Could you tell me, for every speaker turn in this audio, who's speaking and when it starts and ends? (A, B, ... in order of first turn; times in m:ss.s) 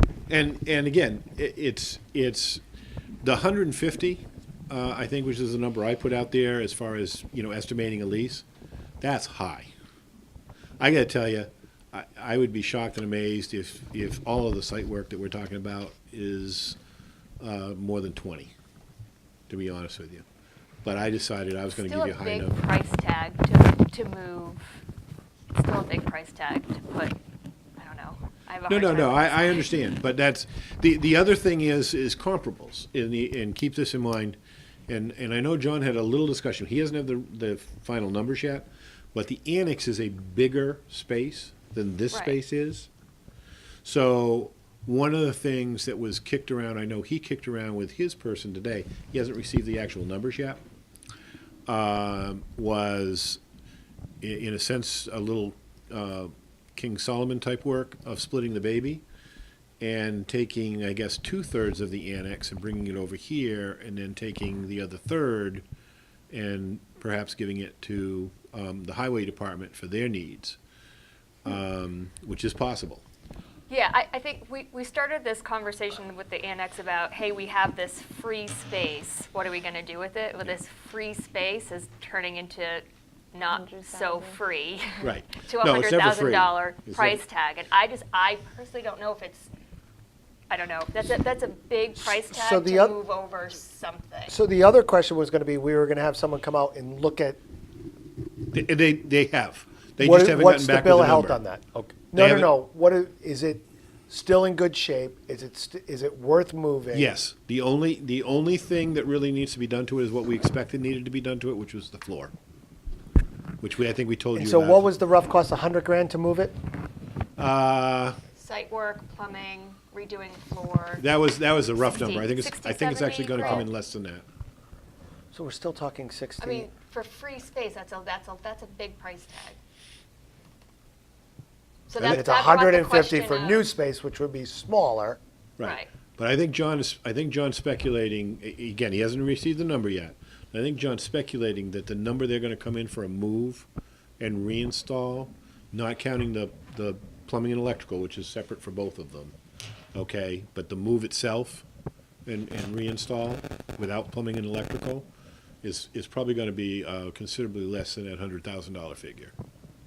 0:00.3-0:02.6 A
0:03.2-0:08.4 A
0:09.0-0:09.7 A
0:10.8-0:16.8 A
0:17.4-0:18.5 A
0:19.5-0:20.2 A
0:20.8-0:22.6 A
0:21.7-0:24.6 B
0:25.5-0:27.1 B
0:27.8-0:29.6 B
0:28.7-0:42.9 A
0:42.1-0:42.4 B
0:43.8-0:50.6 A
0:51.7-0:53.4 A
0:54.2-0:59.0 A
0:59.8-1:05.6 A
1:06.3-1:10.6 A
1:11.4-1:13.0 A
1:13.7-1:29.5 B
1:25.0-1:27.2 A
1:30.5-1:34.3 B
1:32.0-1:33.0 C
1:34.3-1:37.4 C
1:38.5-1:42.6 A
1:40.0-1:47.1 C
1:46.9-1:52.3 A
1:53.6-1:54.9 A
1:54.3-1:56.5 C
1:57.4-1:58.2 A
1:58.4-2:01.0 B
2:01.0-2:04.2 A
2:01.8-2:03.7 B
2:05.3-2:06.7 C
2:06.4-2:09.6 B
2:11.9-2:13.7 B
2:12.0-2:15.2 C
2:15.6-2:23.7 A
2:15.6-2:15.9 B
2:24.2-2:29.3 A
2:29.9-2:31.6 A
2:32.2-2:35.0 A
2:35.6-2:39.3 A